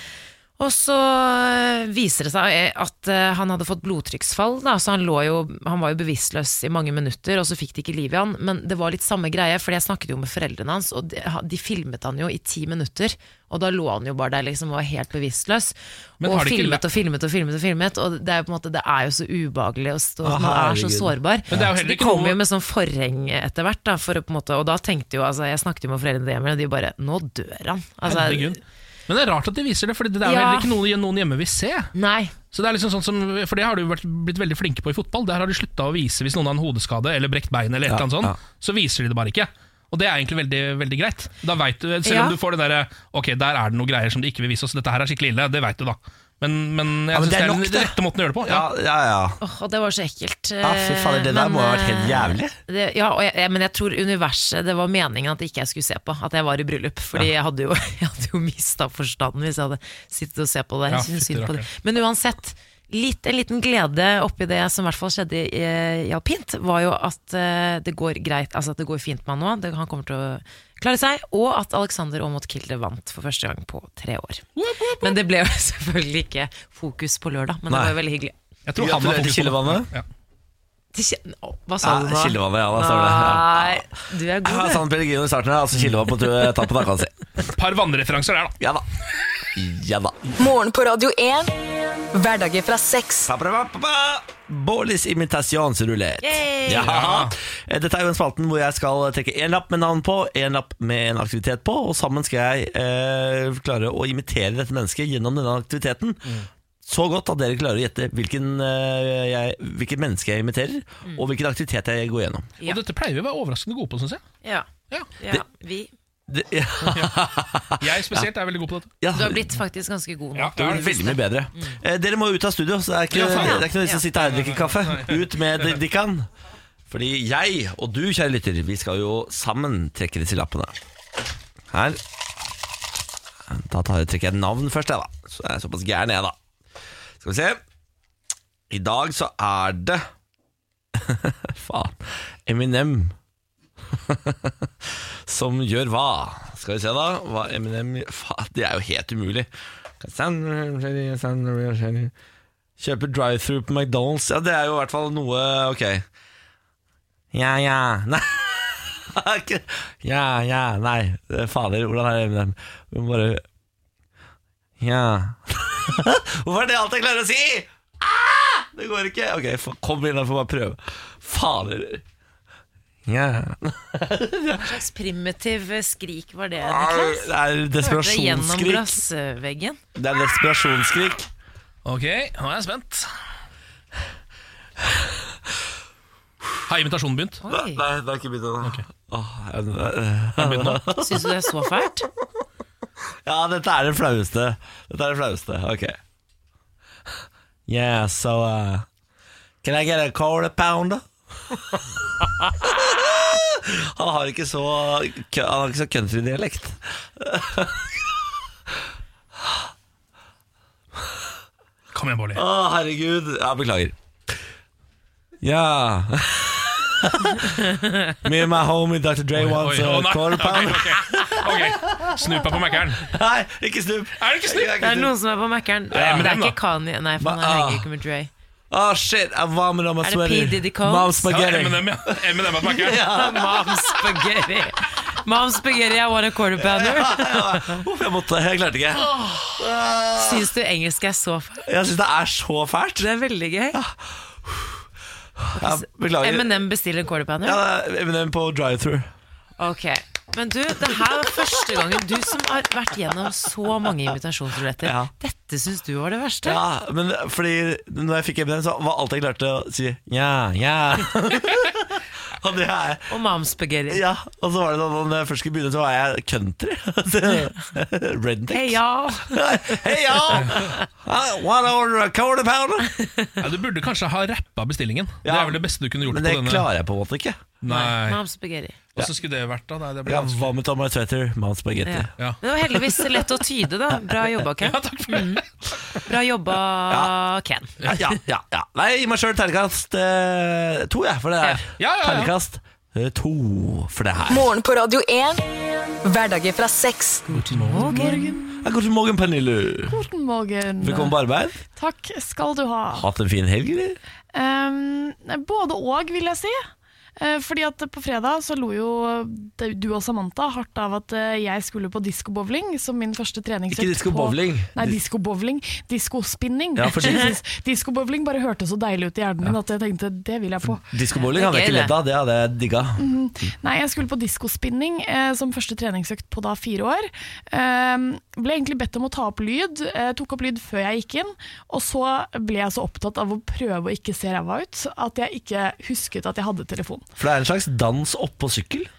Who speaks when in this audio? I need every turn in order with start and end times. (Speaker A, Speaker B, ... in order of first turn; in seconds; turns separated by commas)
Speaker A: 0.6-28.6, Speaker B: 16.2-16.8, Speaker C: 20.2-21.7, Speaker B: 21.5-22.4, Speaker B: 28.1-31.9, Speaker A: 30.2-30.7, Speaker A: 31.9-32.3, Speaker B: 32.5-48.7, Speaker C: 37.9-38.4, Speaker A: 42.0-42.4, Speaker C: 47.1-49.4, Speaker A: 49.4-74.5, Speaker C: 50.6-52.6, Speaker B: 60.9-61.7, Speaker B: 74.6-75.2, Speaker A: 75.0-78.3, Speaker C: 77.7-78.0, Speaker B: 78.7-80.0, Speaker C: 78.8-79.9, Speaker A: 80.9-84.8, Speaker C: 81.8-83.9, Speaker C: 84.4-87.2, Speaker B: 87.5-88.5, Speaker C: 88.6-88.9, Speaker C: 89.5-90.2, Speaker D: 90.4-91.5, Speaker D: 92.1-93.3, Speaker C: 93.2-106.2, Speaker A: 96.2-96.9, Speaker B: 96.7-97.3, Speaker C: 106.8-112.5, Speaker B: 112.6-114.2, Speaker A: 114.4-115.9, Speaker C: 116.3-118.3, Speaker B: 116.9-118.9, Speaker C: 119.0-119.6, Speaker A: 119.1-121.8, Speaker B: 120.4-120.8, Speaker C: 120.6-126.3, Speaker B: 123.1-125.6, Speaker A: 123.2-124.0, Speaker C: 126.9-130.8, Speaker C: 131.7-132.0, Speaker C: 133.5-136.4, Speaker C: 137.2-137.6, Speaker C: 138.7-140.1, Speaker C: 140.9-143.2, Speaker C: 143.9-152.1, Speaker C: 152.8-156.1, Speaker C: 157.3-163.4, Speaker C: 164.8-172.0, Speaker C: 173.1-174.8, Speaker A: 174.6-177.3, Speaker C: 176.6-179.0, Speaker A: 177.8-179.8, Speaker C: 179.9-181.3, Speaker B: 181.8-183.1, Speaker B: 186.7-187.4, Speaker A: 187.4-187.8, Speaker C: 187.5-191.3, Speaker B: 190.4-190.8, Speaker A: 191.0-192.1, Speaker C: 193.2-196.0, Speaker C: 197.7-198.9, Speaker C: 199.6-208.1, Speaker B: 211.9-212.4, Speaker C: 212.3-213.9, Speaker C: 215.4-217.6, Speaker A: 217.7-218.1, Speaker C: 218.2-225.1, Speaker B: 219.3-223.1, Speaker B: 224.2-224.8, Speaker A: 224.8-228.3, Speaker B: 225.9-226.6, Speaker C: 225.9-226.3, Speaker C: 227.2-227.9, Speaker C: 228.7-234.0, Speaker A: 230.0-231.3, Speaker B: 231.3-233.1, Speaker A: 233.1-237.8, Speaker C: 236.6-240.5, Speaker A: 240.2-241.6, Speaker C: 241.6-243.1, Speaker A: 243.0-243.8, Speaker C: 243.7-244.8, Speaker C: 245.4-246.6, Speaker A: 245.6-247.6, Speaker C: 247.4-249.1, Speaker A: 249.6-256.6, Speaker C: 254.8-255.1, Speaker C: 256.4-263.1, Speaker A: 263.1-264.0, Speaker C: 263.9-272.9, Speaker A: 268.5-270.6, Speaker A: 273.0-273.4, Speaker B: 273.4-276.7, Speaker C: 275.2-277.4, Speaker B: 277.6-278.2, Speaker A: 277.7-278.8, Speaker B: 278.9-280.5, Speaker C: 280.1-282.1, Speaker A: 281.9-285.4, Speaker B: 284.6-285.5, Speaker A: 286.1-287.9, Speaker C: 287.8-294.5, Speaker B: 291.8-292.3, Speaker D: 294.3-295.4, Speaker D: 296.0-297.4, Speaker B: 297.3-298.1, Speaker A: 297.5-298.3, Speaker E: 297.9-298.4, Speaker C: 297.9-300.0, Speaker E: 299.9-301.2, Speaker C: 300.8-301.6, Speaker E: 301.8-303.1, Speaker C: 302.9-304.0, Speaker E: 304.3-306.6, Speaker E: 307.2-320.8, Speaker C: 313.7-315.0, Speaker C: 316.8-317.4, Speaker A: 317.0-317.3, Speaker C: 320.6-323.1, Speaker A: 321.1-321.9, Speaker E: 323.0-337.1, Speaker C: 337.2-338.9